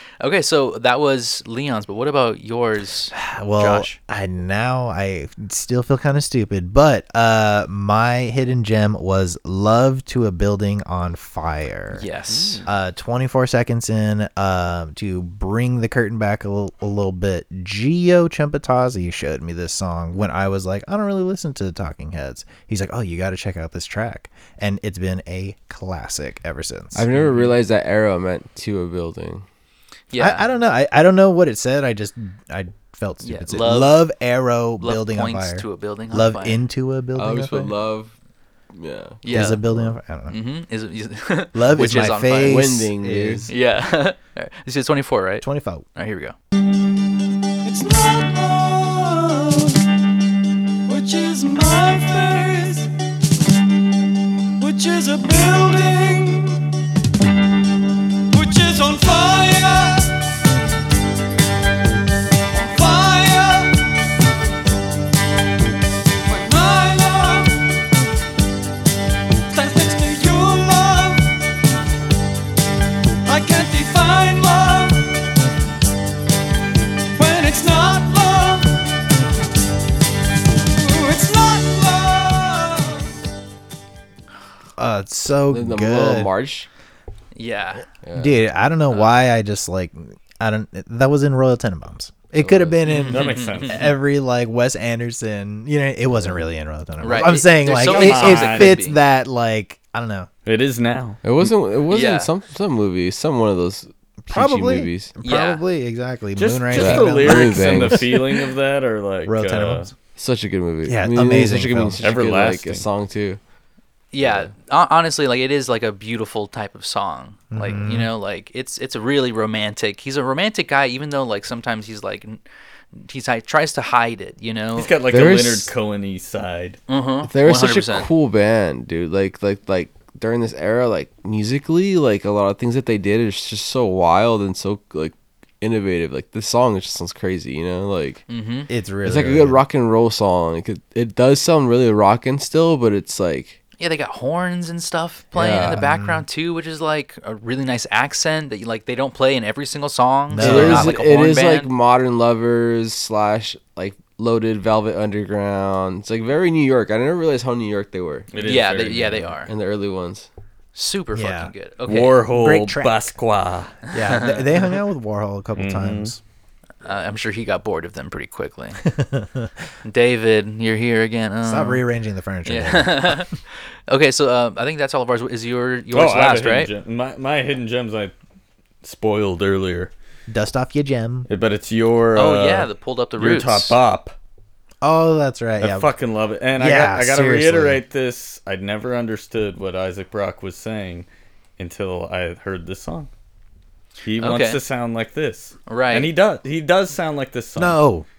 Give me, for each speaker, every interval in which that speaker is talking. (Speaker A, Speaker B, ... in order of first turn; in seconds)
Speaker A: 0.2-4.0, 11.9-12.7, 30.1-30.4, 33.2-34.0, 34.8-36.6, 39.2-39.6, 40.3-42.7, 43.5-46.4, 87.3-87.9, 92.8-93.9, 97.0-99.0, 101.9-102.3, 105.2-105.6, 114.1-124.9, 126.9-128.1, 138.3-138.7, 143.8-151.7, 158.4-159.5, 160.8-162.2, 163.9-164.7, 166.8-168.8, 169.8-171.8, 172.5-176.7, 182.2-183.8, 194.2-194.6, 195.7-196.1
Speaker B: 3.1-12.1, 12.7-27.1, 30.2-37.7, 39.3-40.4, 41.5-43.5, 45.4-45.9, 84.8-86.3, 88.2-100.3, 104.2-108.1, 109.2-109.9, 110.8-112.1, 117.5-118.1, 138.7-139.6, 145.6-146.2, 150.3-151.0, 161.1-161.5, 162.3-163.1, 163.9-166.2, 168.8-169.5, 171.4-173.3, 180.3-181.3, 184.8-185.9, 186.6-187.8, 197.6-198.1
Speaker C: 26.9-29.5, 37.2-38.1, 38.7-39.9, 42.4-43.5, 85.5-86.7, 88.0-88.4, 92.4-92.8, 96.2-96.4, 101.2-105.1, 106.8-108.2, 110.2-113.4, 114.2-114.5, 125.1-125.7, 127.3-138.2, 139.0-143.6, 145.3-145.8, 150.4-158.3, 159.4-160.3
Speaker D: 27.1-27.6, 93.0-93.9, 97.6-98.8, 100.5-101.2, 106.4-109.9, 112.0-112.9, 124.8-126.8, 158.3-159.3, 161.9-163.8, 165.6-166.2, 175.9-178.2, 178.8-179.9, 181.3-184.2, 185.6-191.1, 191.6-193.1, 194.0-197.8
Speaker E: 47.6-49.8, 50.9-52.9, 54.6-56.7, 58.3-60.2, 62.5-63.9, 66.3-67.7, 69.5-71.4, 73.2-75.2, 77.2-78.8, 80.7-83.1